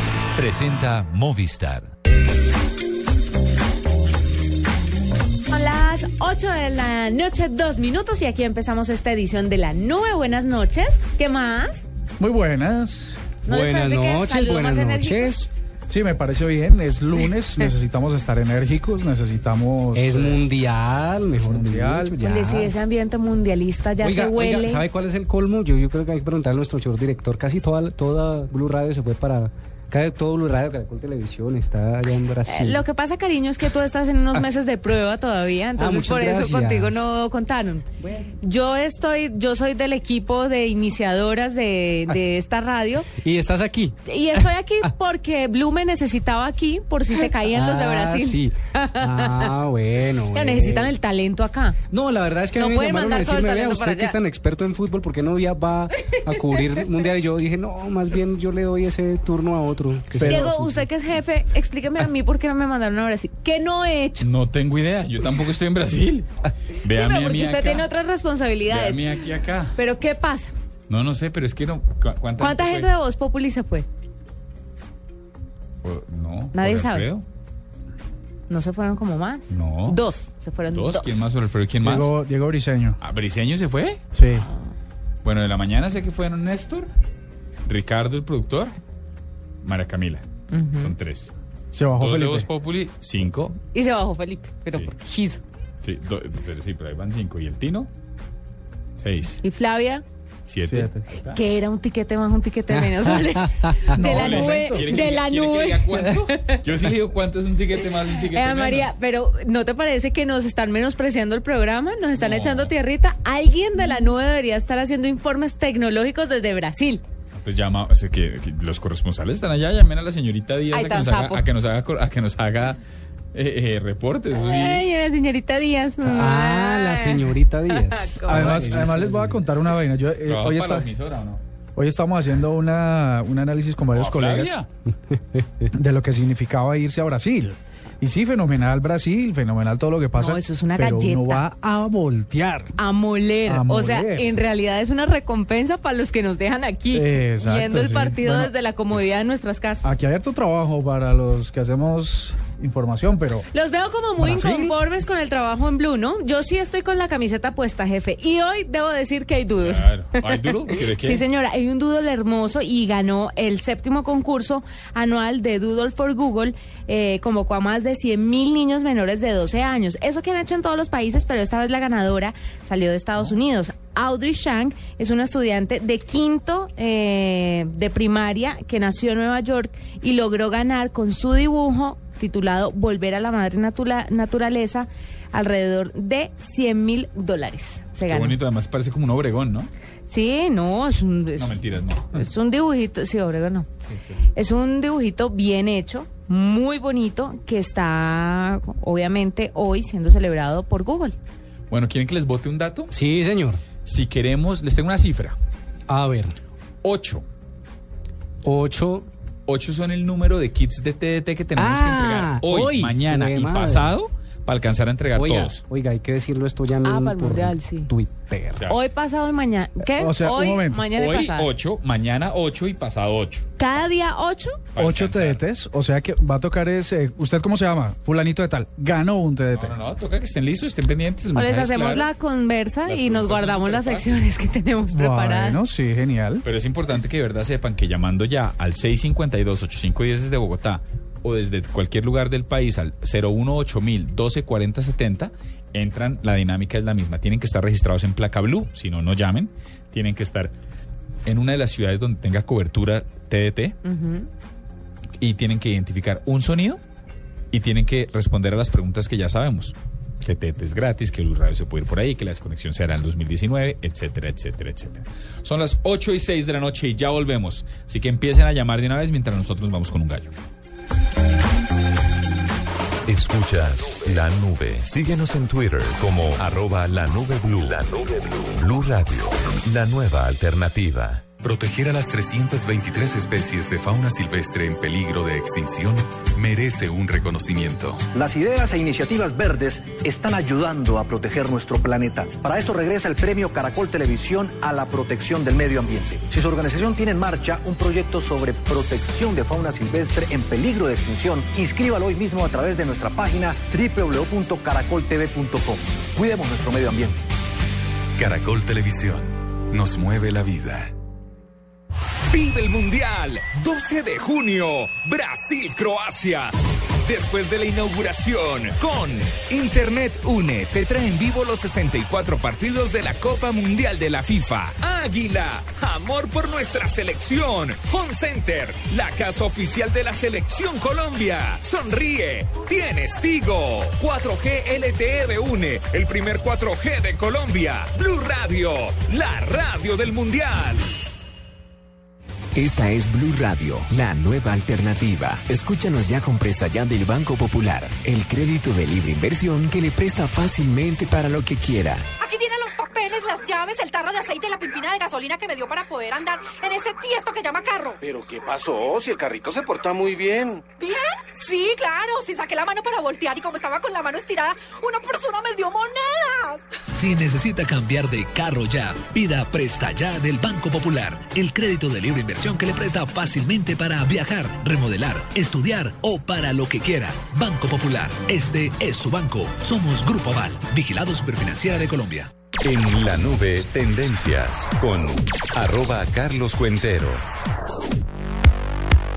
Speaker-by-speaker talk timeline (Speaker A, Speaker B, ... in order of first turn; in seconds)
Speaker A: 0.3-1.9, 281.4-288.0, 308.2-310.8
Speaker B: 5.5-11.8, 13.4-15.3, 22.2-24.8, 32.5-37.9, 38.4-43.1, 44.1-49.5, 50.3-51.8, 52.6-54.2, 60.2-64.3, 66.8-69.0, 69.8-70.5, 72.4-73.8, 76.5-77.1, 78.5-81.2, 84.3-84.7, 90.5-91.0, 93.7-95.4, 99.4-100.0, 101.3-106.6, 108.3-117.0, 120.7-121.5, 124.3-128.7, 140.2-141.4, 142.8-150.0, 153.5-188.4, 190.1-191.6, 192.1-193.7, 194.3-201.2, 216.8-217.9, 218.6-221.5, 223.6-224.6, 231.3-235.6, 253.8-254.3
Speaker C: 12.2-13.3, 15.9-20.4, 21.4-22.2, 60.2-60.5, 81.8-83.0, 84.1-84.5, 91.7-92.5, 100.7-101.0, 103.9-105.0, 128.3-130.9, 131.7-134.6, 135.7-142.8, 143.4-144.3, 146.9-149.0, 149.8-153.4, 154.2-154.7, 219.9-220.9, 224.8-229.8, 234.9-236.4
Speaker D: 13.5-15.5, 19.9-22.7, 24.0-32.8, 35.8-37.0, 38.0-38.3, 43.1-44.0, 47.2-50.9, 51.9-60.8, 126.0-129.4, 135.3-135.6, 202.9-203.6, 205.9-206.3, 208.4-209.1, 211.6-213.9, 215.1-218.7
Speaker E: 64.2-66.3, 66.8-67.9, 68.7-69.7, 70.9-72.9, 75.8-77.2, 79.5-80.0, 80.7-82.2, 83.0-84.0, 85.2-86.9, 87.7-88.7, 89.6-90.2, 90.8-91.3, 92.0-93.6, 95.8-97.9, 99.0-99.4, 100.5-101.4, 104.0-108.9, 112.2-112.7, 117.3-122.8, 123.3-124.8, 128.3-129.3, 130.2-131.4, 133.9-134.7, 159.6-161.2, 188.1-189.7, 191.3-192.2, 201.7-202.9, 203.8-205.3, 206.8-207.2, 209.5-215.6, 220.9-223.4, 224.7-225.4, 229.5-232.1, 232.8-234.3, 236.4-250.5, 251.2-253.8, 255.2-256.8, 257.5-270.3
Speaker F: 273.1-281.5, 308.9-309.2, 382.6-387.2
Speaker G: 288.1-307.2
Speaker H: 312.3-316.5, 317.1-340.9
Speaker I: 342.5-352.1
Speaker J: 352.2-358.0, 360.8-366.6
Speaker K: 358.2-360.4
Speaker L: 366.9-382.3